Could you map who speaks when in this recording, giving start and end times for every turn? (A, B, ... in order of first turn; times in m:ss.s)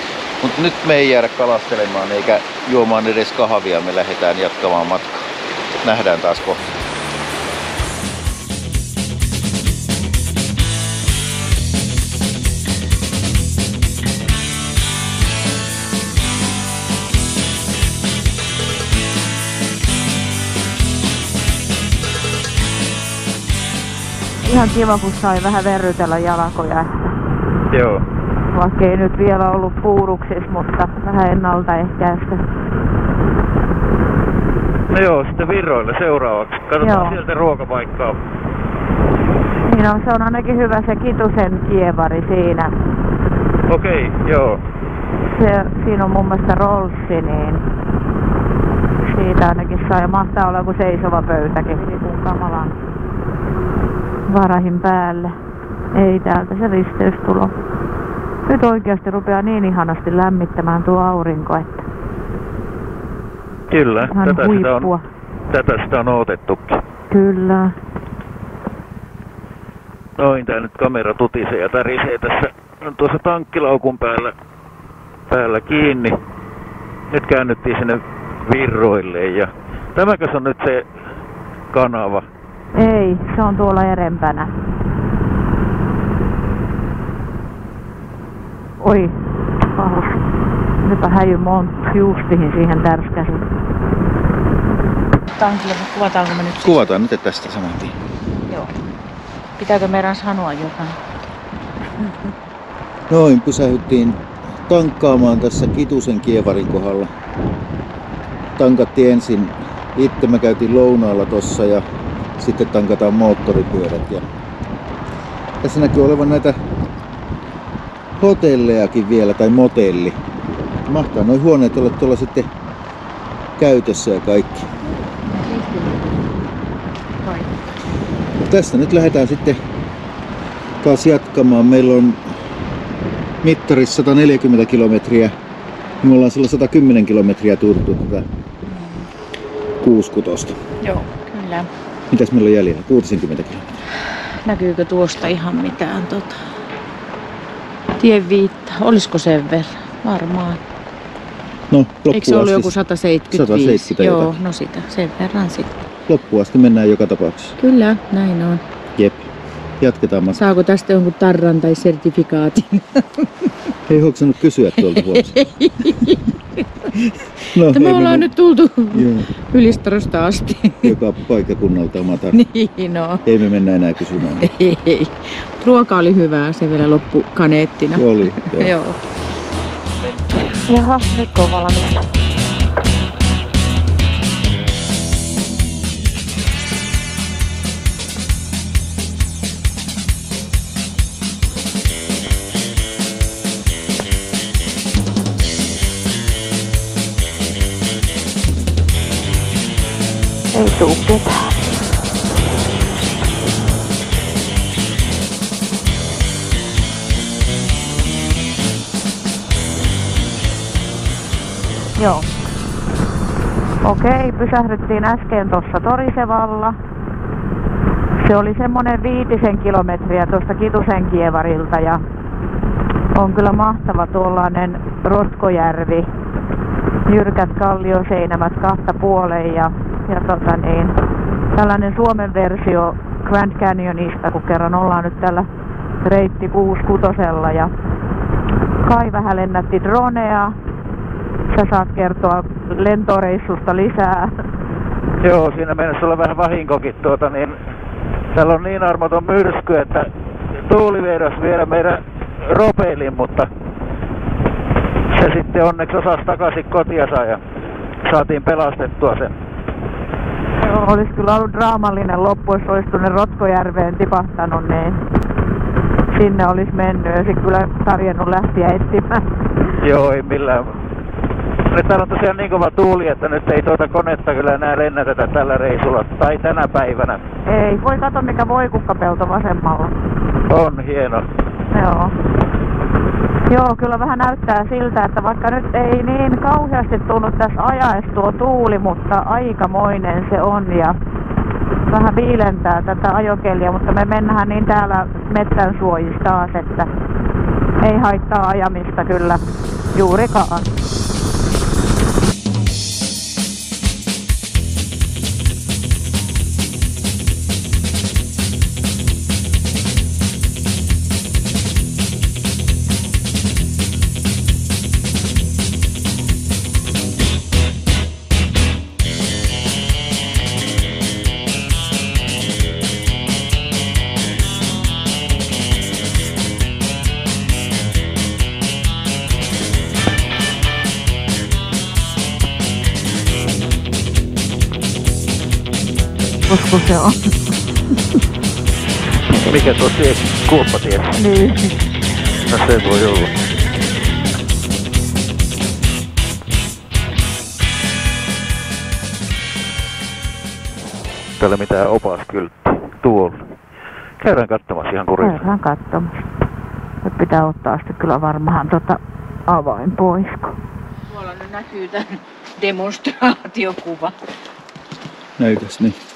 0:00.4-0:05.3 A
0:05.8-0:06.7 A
0:24.4-0:27.1 B
0:27.7-0:28.0 C
0:28.5-0:32.4 B
0:34.9-0:38.2 C
0:36.8-0:37.2 B
0:39.7-0:42.7 B
0:43.7-0:44.6 C
0:45.3-0:47.6 B
0:49.0-0:52.7 B
0:54.3-0:55.4 B
0:55.9-0:57.5 B
0:58.5-1:01.8 B
1:03.7-1:04.9 C
1:04.0-1:05.1 B
1:05.5-1:06.8 C
1:07.1-1:07.8 B
1:10.2-1:14.3 C
1:15.3-1:16.2 C
1:17.1-1:20.8 C
1:21.7-1:22.3 C
1:22.8-1:24.5 B
1:28.8-1:29.1 B
1:29.7-1:30.2 B
1:30.8-1:33.4 B
1:35.4-1:36.9 D
1:36.6-1:38.0 A
1:38.5-1:38.7 D
1:39.6-1:41.0 D
1:43.1-1:47.1 A
1:48.6-1:51.8 A
1:52.4-1:54.2 A
1:55.6-1:56.6 A
1:58.2-2:00.2 A
2:00.9-2:02.5 A
2:03.6-2:04.7 A
2:05.2-2:06.2 D
2:07.2-2:07.5 D
2:08.4-2:09.6 A
2:10.8-2:12.2 A
2:13.4-2:15.3 A
2:16.0-2:18.2 A
2:18.7-2:19.1 D
2:19.8-2:20.6 A
2:20.8-2:21.7 D
2:22.1-2:23.6 A
2:24.4-2:26.4 D
2:28.0-2:30.6 D
2:31.7-2:32.7 A
2:32.1-2:35.8 D
2:33.3-2:34.4 A
2:36.1-2:37.6 A
2:37.6-2:38.6 D
2:39.0-2:39.3 A
2:39.8-2:40.4 A
2:40.4-2:43.3 D
2:43.9-2:45.4 A
2:44.8-2:46.3 D
2:47.5-2:50.9 D
2:47.5-2:48.3 A
2:48.9-2:49.3 A
2:50.8-2:52.4 A
2:52.3-2:53.2 D
2:53.2-2:54.5 A
2:54.4-2:59.0 D
2:57.9-2:58.7 A
3:00.7-3:02.0 B
3:20.5-3:21.6 B
3:32.0-3:32.3 B
3:33.8-3:36.8 B
3:38.2-3:42.0 B
3:43.1-3:46.1 B
3:47.1-3:51.0 B
3:51.5-3:55.5 B
3:56.0-3:57.7 B
3:58.8-4:00.6 B
4:01.5-4:04.4 B
4:05.2-4:07.6 C
4:08.3-4:13.5 C
4:15.1-4:17.4 C
4:18.0-4:19.3 C
4:20.6-4:25.0 B
4:26.1-4:29.3 B
4:29.8-4:30.8 C
4:31.7-4:37.2 C
4:37.5-4:39.9 B
4:40.5-4:41.2 C
4:41.7-4:42.1 B
4:43.5-4:51.0 B
4:51.9-4:56.9 B
4:57.8-4:59.4 B
4:59.9-5:00.6 B
5:36.5-5:37.3 B
5:39.4-5:41.2 C
5:41.2-5:41.8 B
5:42.5-5:43.3 C
5:51.4-5:53.4 C
5:54.2-5:55.5 C
5:55.2-5:56.2 B
5:57.0-6:00.6 B
6:01.1-6:04.2 D
6:05.4-6:06.0 A